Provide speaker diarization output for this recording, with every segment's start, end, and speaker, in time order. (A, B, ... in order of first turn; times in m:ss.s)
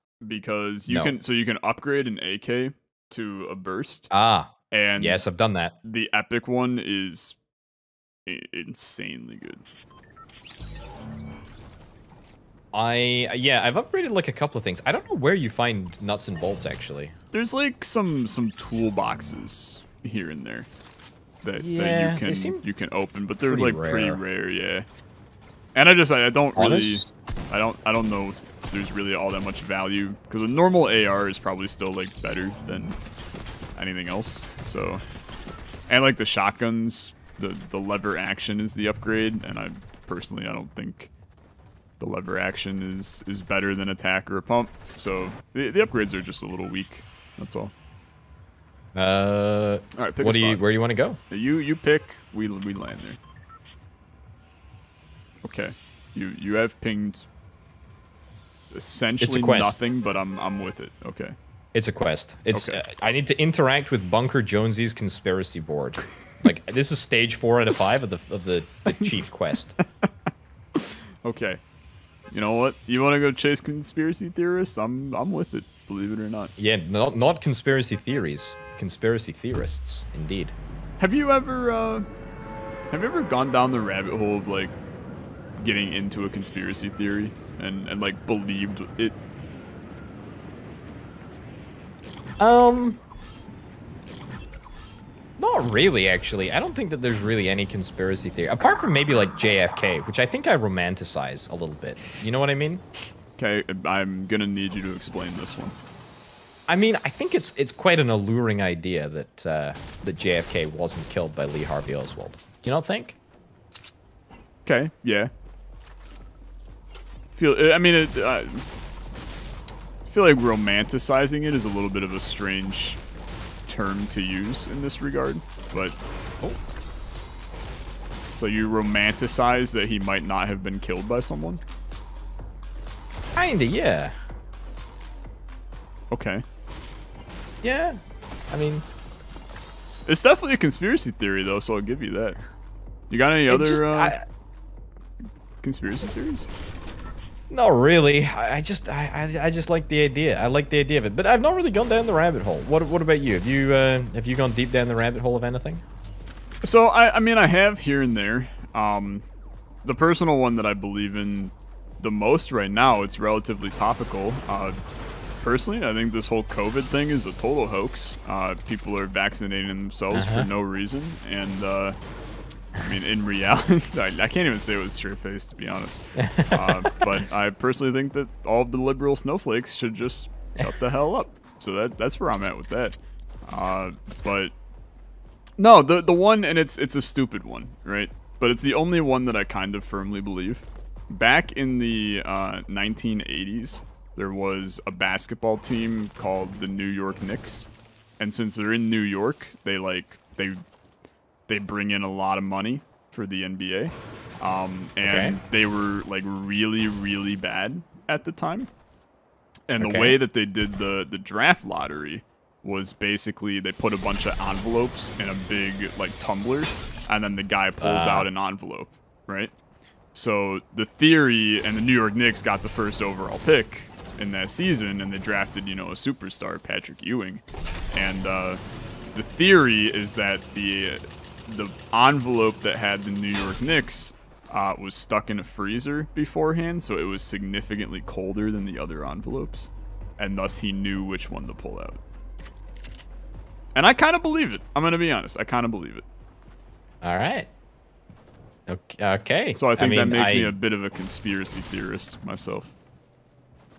0:00.2-0:04.1 A
0:00.9-0:01.2 B
0:04.1-0:05.8 B
0:04.7-0:05.2 A
0:05.8-0:07.4 A
0:08.3-0:09.6 A
0:12.7-0:17.2 B
0:17.3-0:20.7 A
0:21.4-0:24.9 A
0:21.6-0:22.6 B
0:23.4-0:24.2 B
0:25.8-0:33.0 A
0:26.6-0:27.1 B
0:33.8-0:35.0 A
0:35.9-0:41.1 A
0:42.0-0:47.7 A
0:49.0-0:51.2 B
0:50.0-0:50.6 A
0:51.3-0:53.2 A
0:55.4-0:57.3 A
0:58.7-1:01.4 A
0:59.2-0:59.8 B
1:01.7-1:09.8 B
1:02.5-1:02.8 A
1:08.9-1:09.2 A
1:10.8-1:11.6 A
1:12.3-1:16.5 A
1:16.6-1:20.6 B
1:21.0-1:22.1 A
1:22.9-1:24.7 A
1:25.6-1:29.2 A
1:32.4-1:33.0 B
1:35.4-1:42.8 B
1:43.4-1:45.8 A
1:46.7-1:53.2 B
1:54.7-1:55.3 A
1:57.3-1:58.6 A
2:00.1-2:03.0 A
2:03.7-2:06.0 A
2:08.4-2:11.6 A
2:13.3-2:14.2 B
2:16.1-2:16.4 A
2:17.6-2:18.0 B
2:18.5-2:18.9 B
2:20.1-2:22.4 A
2:23.1-2:24.2 A
2:23.5-2:24.2 B
2:25.6-2:26.5 A
2:27.5-2:35.8 B
2:36.6-2:39.2 A
2:39.8-2:44.8 A
2:45.4-2:52.0 A
2:50.1-2:50.5 B
2:52.8-3:04.5 A
2:56.2-2:57.0 B
3:05.6-3:20.6 A
3:21.5-3:28.7 A
3:25.0-3:25.4 B
3:29.7-3:39.5 A
3:29.8-3:30.2 B
3:37.8-3:38.3 B
3:40.1-3:48.6 A
3:49.1-4:02.0 A
4:03.8-4:06.0 A
4:07.0-4:07.5 B
4:08.7-4:10.5 B
4:09.5-4:12.7 A